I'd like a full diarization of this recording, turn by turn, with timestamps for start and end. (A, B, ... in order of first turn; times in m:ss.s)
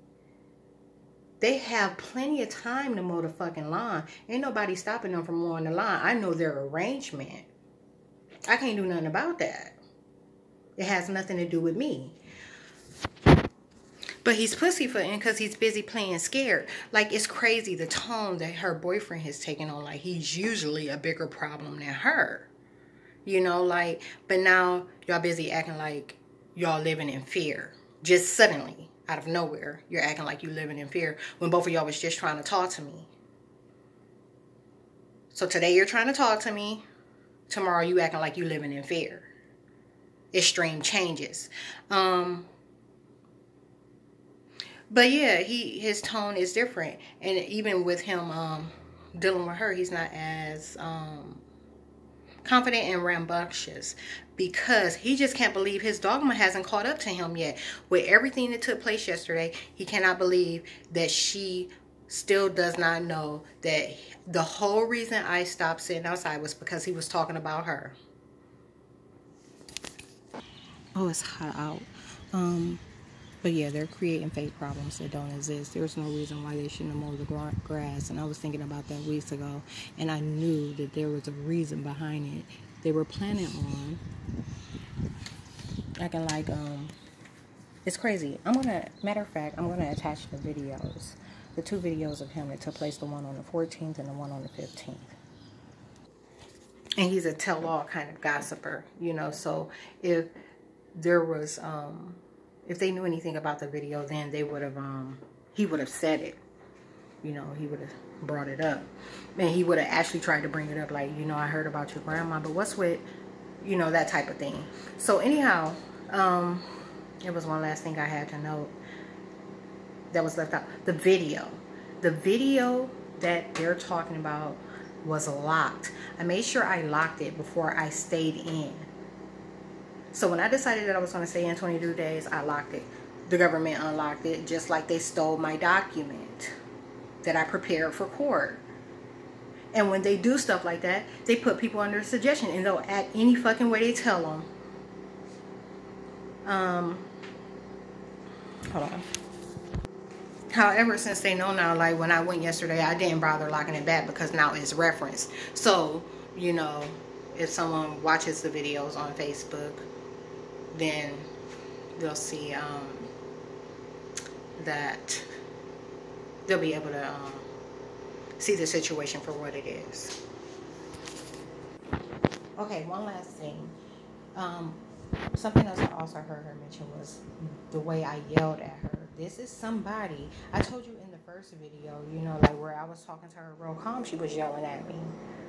0:01.4-0:07.5 A
0:08.5-0:09.8 A
0:10.8-0:12.2 A
0:14.2-0:22.5 A
0:23.2-0:33.1 A
0:35.3-0:36.8 A
0:37.5-0:39.3 A
0:40.3-0:42.5 A
0:44.9-0:51.4 A
0:52.4-1:08.0 A
1:10.9-1:12.8 A
1:13.4-1:24.0 A
1:26.0-1:26.9 A
1:27.8-1:35.2 A
1:37.0-1:40.3 A
1:40.9-1:46.4 A
1:47.2-1:53.1 A
1:53.6-1:56.7 A
1:57.2-1:58.7 A
2:00.1-2:08.9 A
2:10.1-2:16.5 A
2:17.2-2:18.6 A
2:19.7-2:24.5 A
2:26.4-2:27.1 A
2:28.7-2:29.1 A
2:30.5-2:39.9 A
2:40.7-2:41.3 A
2:42.0-2:43.1 A
2:44.6-2:45.3 A
2:46.5-2:47.5 A
2:48.4-2:50.2 A
2:52.6-2:53.7 A
2:54.3-2:54.8 A
2:55.3-3:05.2 A